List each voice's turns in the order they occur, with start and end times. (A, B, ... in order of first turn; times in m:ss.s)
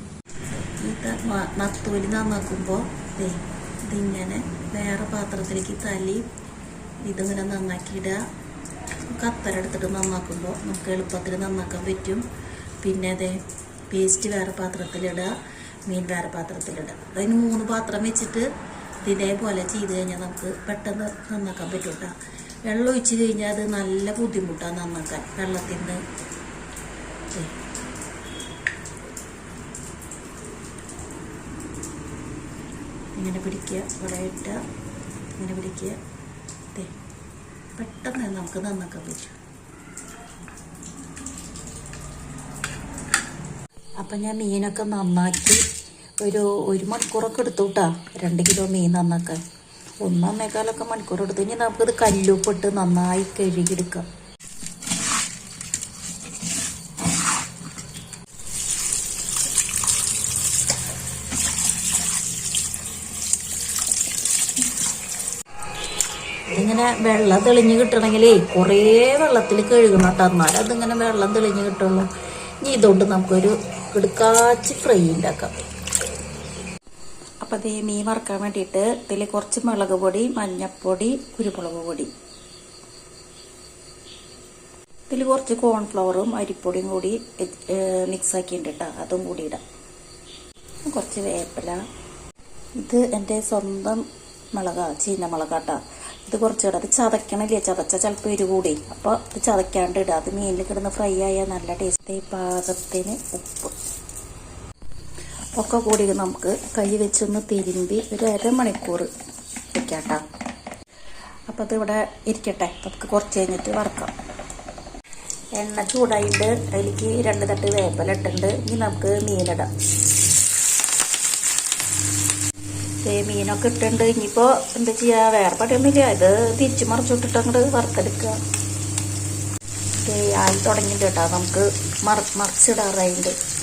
0:00.6-0:06.2 A
0:07.0-0:08.2 A
0:09.1-0:12.2 A
0:12.8-0:15.3 A
0:15.9-0:18.5 A
0:19.0-0:22.1 A
0:22.7-0:26.0 A
0:33.1-0:34.6 A
0:35.4-0:36.0 A
0:37.8-0:39.4 A
0:44.0-0:45.6 A
0:46.2-0:49.4 A
0:50.0-0:54.0 A
1:06.5-1:12.1 A
1:12.6-1:15.5 A
1:17.4-1:22.1 A
1:25.1-1:29.6 A
1:30.9-1:31.8 A
1:32.8-1:34.0 A
1:34.5-1:43.7 A
1:45.6-1:49.1 A
1:49.7-1:50.2 A
1:51.5-1:54.1 A
1:55.6-1:59.7 A
2:03.0-2:08.4 A
2:10.0-2:13.3 A